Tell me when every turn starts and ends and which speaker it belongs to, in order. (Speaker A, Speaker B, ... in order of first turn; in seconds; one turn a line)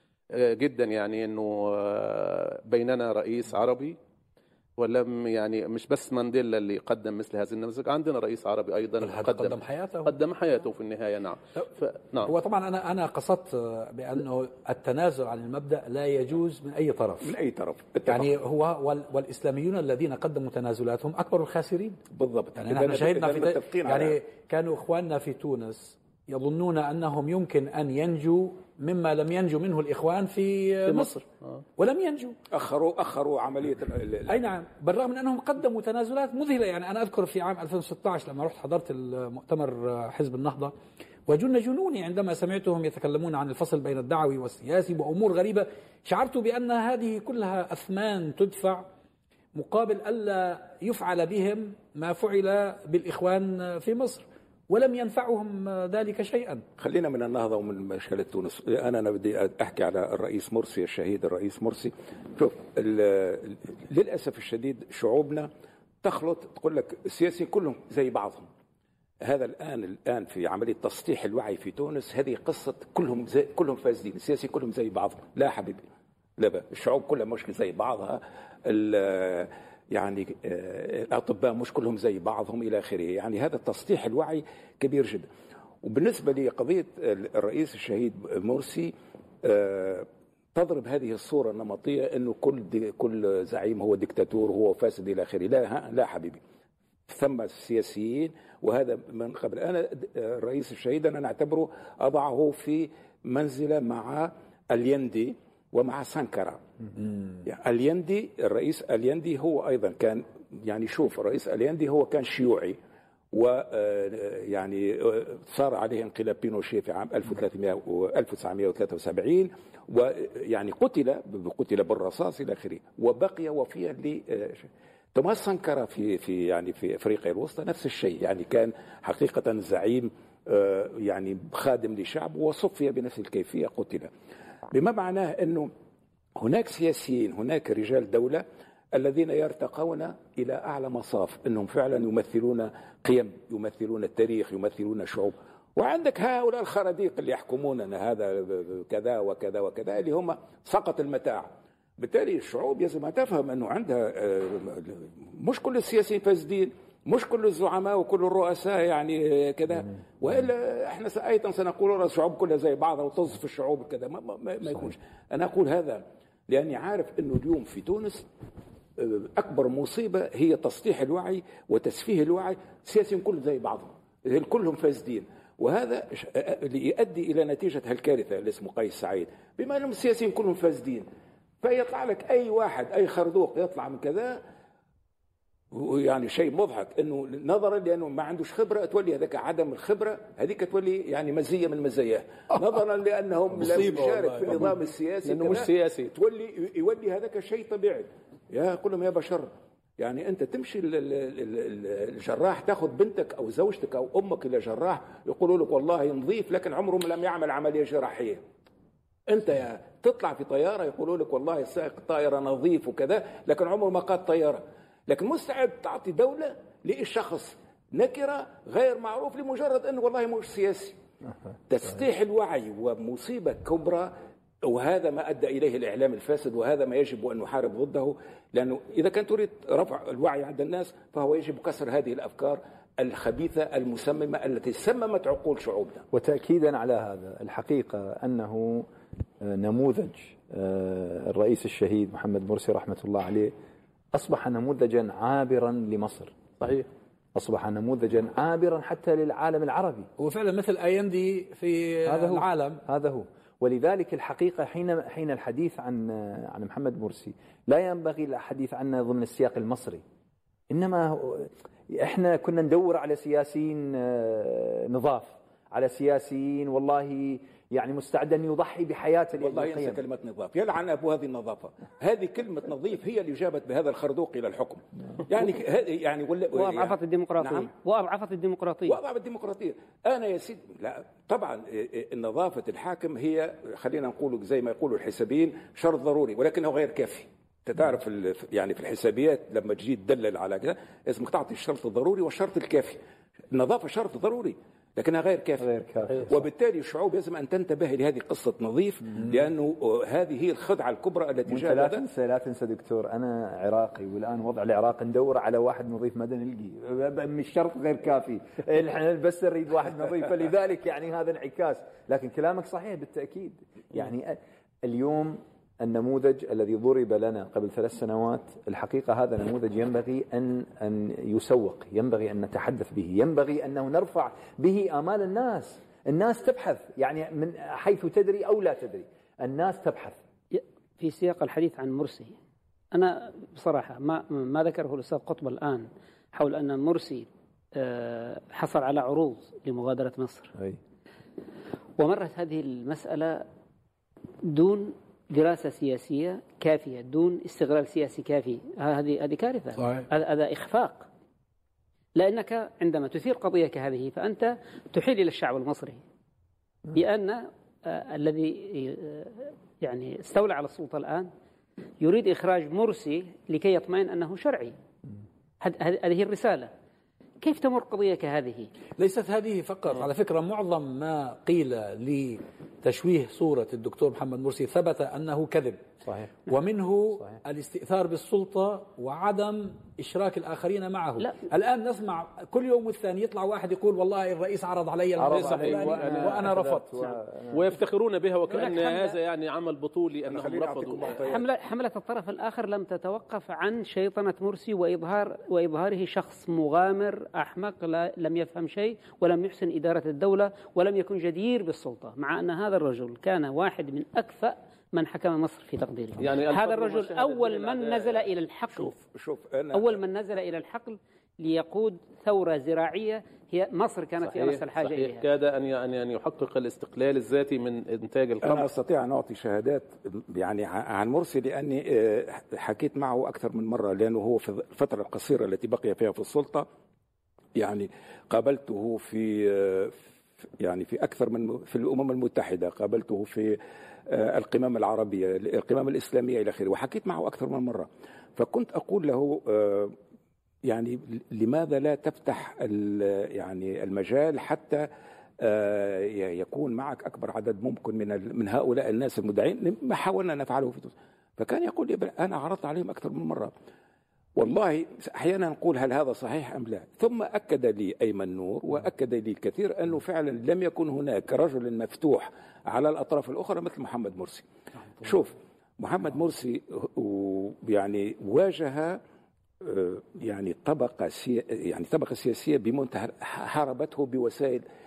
Speaker A: 0.3-4.0
Speaker A: 4.8-12.3
Speaker B: 9.0-10.1
Speaker B: 12.2-17.3
Speaker C: 17.2-18.3
Speaker B: 18.1-22.0
Speaker C: 22.1-24.2
Speaker B: 22.6-31.2
Speaker A: 30.9-31.6
Speaker B: 31.8-32.4
Speaker C: 32.5-34.4
Speaker B: 34.3-40.7
Speaker B: 41.3-48.9
Speaker B: 49.5-56.6
Speaker C: 56.8-65.5
Speaker C: 66.0-68.5
Speaker C: 69.2-75.8
Speaker C: 76.4-85.3
Speaker C: 85.8-96.4
Speaker C: 97.1-106.6
Speaker C: 107.4-112.8
Speaker C: 113.3-134.1
Speaker C: 134.7-135.7
Speaker C: 136.4-168.2
Speaker C: 169.0-181.1
Speaker C: 181.6-184.4
Speaker C: 185.7-208.4
Speaker A: 193.6-196.1
Speaker C: 209.3-221.0
Speaker C: 221.7-224.1
Speaker C: 224.7-236.1
Speaker D: 236.1-238.9
Speaker D: 239.4-243.5
Speaker D: 244.1-246.3
Speaker A: 246.6-246.9
Speaker D: 247.3-250.1
Speaker B: 250.2-252.8
Speaker D: 252.1-260.0
Speaker D: 260.7-270.0
Speaker C: 269.4-277.7
Speaker E: 276.5-279.0
Speaker C: 278.9-293.0
Speaker C: 293.5-295.7
Speaker D: 295.6-296.3
Speaker C: 296.3-302.0
Speaker D: 301.5-330.2
Speaker E: 330.5-332.4
Speaker E: 332.9-340.5
Speaker E: 342.0-343.4
Speaker E: 344.4-351.1
Speaker B: 349.8-350.1
Speaker E: 352.2-356.0
Speaker E: 356.9-361.3
Speaker E: 362.0-364.8
Speaker E: 365.6-366.7
Speaker E: 367.4-368.7
Speaker B: 369.0-375.8
Speaker D: 376.0-376.3
Speaker B: 376.5-387.2
Speaker D: 385.2-387.6
Speaker A: 385.3-391.2
Speaker B: 388.5-389.2
Speaker C: 390.3-391.5
Speaker E: 391.1-409.0
Speaker A: 406.2-408.3
Speaker C: 408.8-410.0
Speaker E: 409.7-415.2
Speaker A: 414.2-418.7
Speaker C: 418.4-426.7
Speaker C: 427.6-430.1
Speaker C: 430.6-433.6
Speaker C: 434.1-439.9
Speaker C: 440.7-444.9
Speaker C: 445.4-453.5
Speaker C: 454.4-464.5
Speaker C: 465.0-469.0
Speaker C: 469.6-474.6